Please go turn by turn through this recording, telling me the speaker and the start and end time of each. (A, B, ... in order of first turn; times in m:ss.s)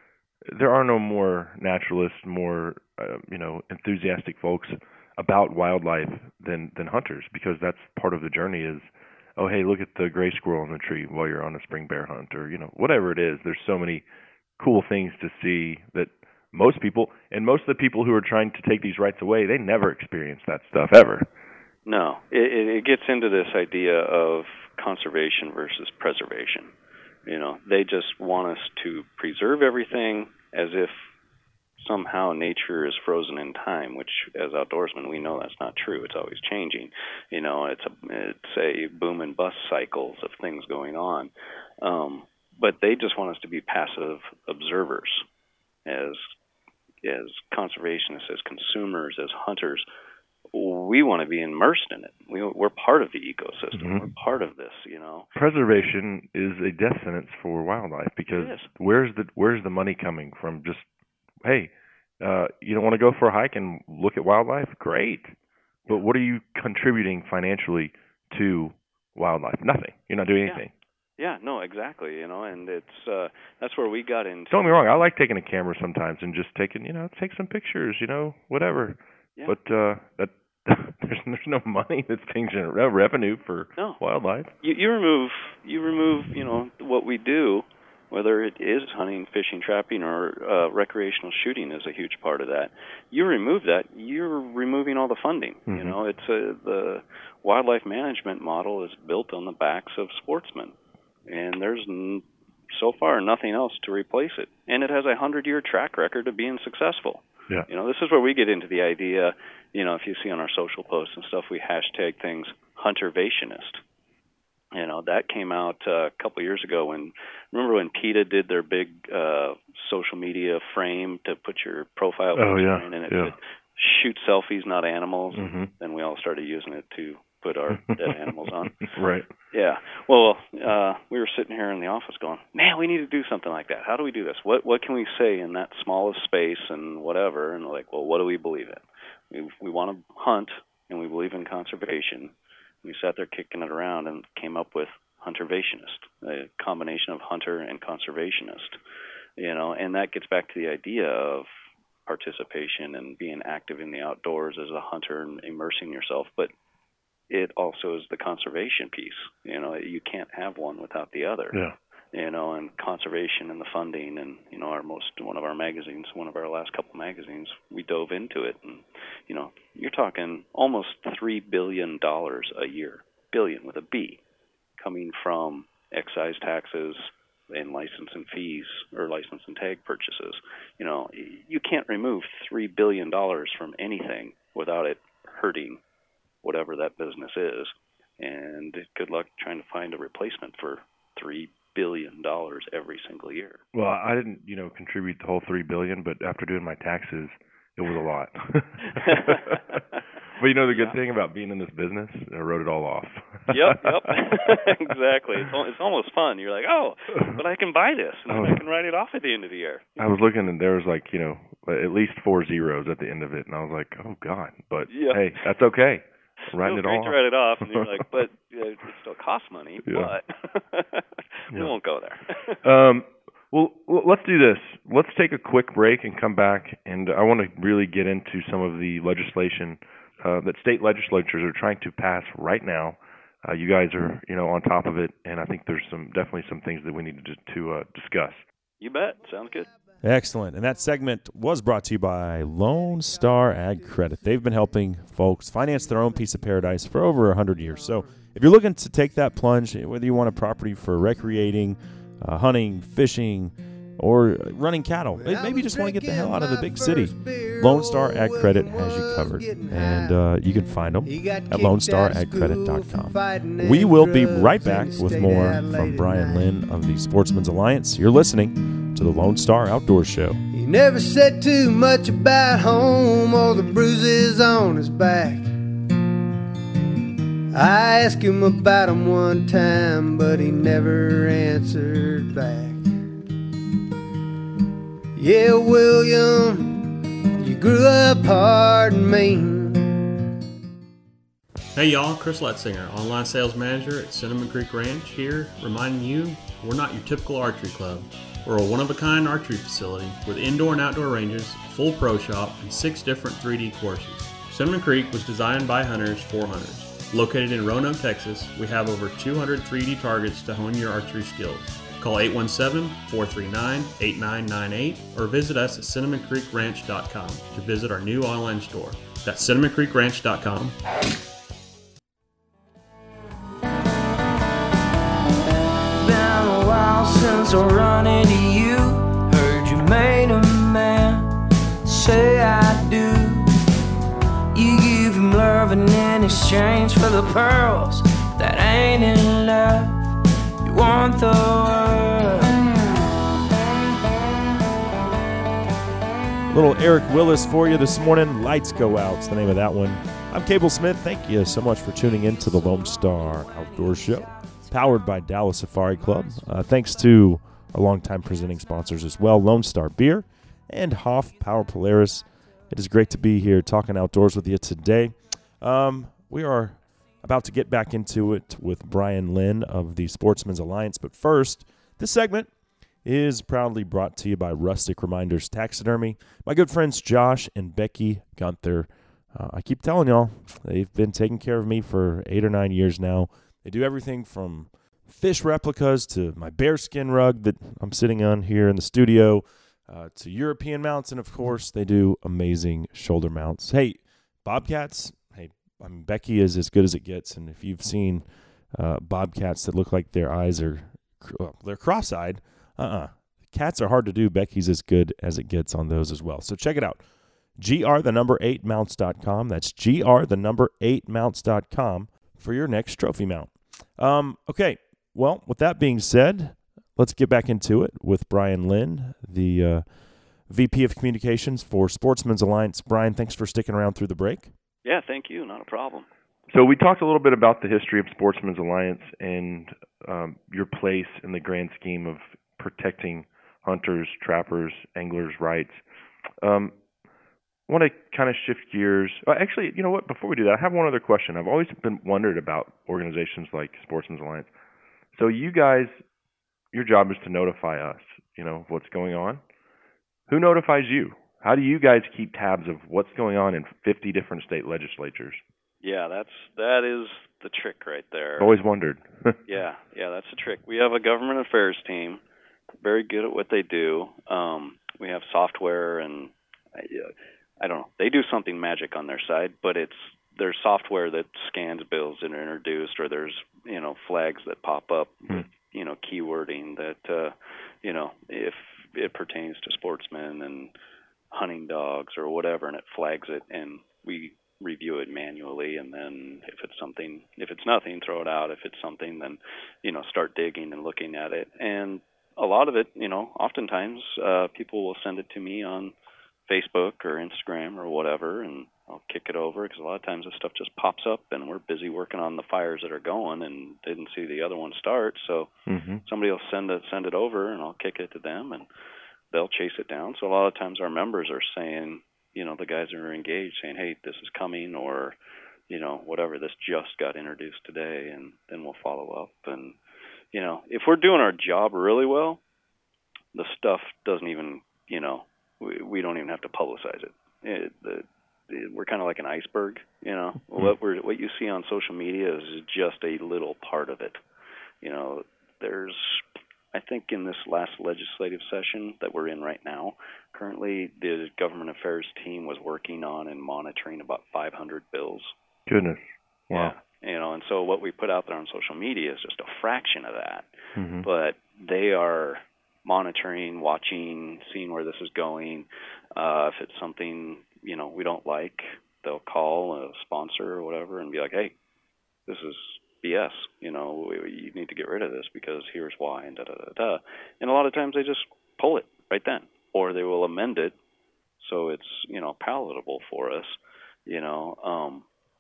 0:00.5-0:14.0 A
0:14.6-0:21.3 A
0:21.8-0:26.7 B
0:27.3-0:31.1 B
0:31.8-0:45.2 B
0:45.9-0:46.3 B
0:47.0-0:49.9 B
0:50.5-0:55.3 B
0:53.8-0:54.1 A
0:55.4-1:00.9 A
0:58.3-0:58.7 B
1:01.4-1:05.4 A
1:05.9-1:10.7 A
1:11.2-1:14.8 B
1:14.5-1:24.5 A
1:23.8-1:24.0 B
1:24.6-1:40.8 B
1:35.7-1:36.0 A
1:41.3-1:53.8 B
1:54.7-2:08.9 B
2:02.4-2:03.3 A
2:05.3-2:05.7 A
2:07.8-2:08.1 A
2:08.7-2:09.3 A
2:09.5-2:28.8 B
2:29.4-2:31.5 B
2:32.1-2:36.5 B
2:37.3-2:41.6 B
2:42.1-2:54.2 B
2:54.8-3:05.8 B
3:06.4-3:13.6 B
3:13.7-3:19.8 A
3:19.0-3:20.0 B
3:20.4-3:24.1 A
3:20.7-3:21.0 B
3:23.5-3:30.1 B
3:28.3-3:28.6 A
3:30.0-3:38.0 A
3:34.9-3:35.4 B
3:36.5-3:42.6 B
3:39.9-3:40.1 A
3:42.6-3:58.4 A
3:58.8-3:59.7 B
4:00.0-4:30.4 C
4:03.2-4:03.8 D
4:07.8-4:08.1 D
4:15.2-4:20.2 D
4:21.0-4:26.6 D
4:30.5-4:35.5 D
4:37.5-4:42.9 D
4:45.2-4:50.1 D
4:51.8-5:20.8 E
5:26.0-5:31.3 F
5:31.9-5:33.5 F
5:34.5-5:40.0 F
5:40.7-5:42.7 F
5:46.5-6:12.5 C
6:13.0-6:47.0 C
6:47.6-6:59.8 C
7:00.5-7:04.5 C
7:04.8-7:06.1 B
7:06.5-7:15.8 A
7:16.4-7:16.7 A
7:17.7-7:24.5 A
7:25.1-7:26.0 A
7:26.7-7:29.4 A
7:30.3-7:35.4 A
7:35.8-7:38.6 B
7:38.4-7:39.4 A
7:39.5-7:42.2 B
7:42.8-8:00.7 B
7:55.3-7:55.5 A
8:01.3-8:15.9 B
8:16.5-8:25.5 B
8:25.7-8:26.0 A
8:26.1-8:28.7 B
8:29.3-8:35.2 B
8:35.7-8:39.8 B
8:40.3-8:42.4 B
8:43.3-8:54.2 B
8:54.8-9:05.3 B
9:05.7-9:06.8 A
9:06.5-9:10.5 B
9:10.8-9:11.1 A
9:11.0-9:21.5 B
9:22.3-9:30.8 B
9:31.4-9:35.1 B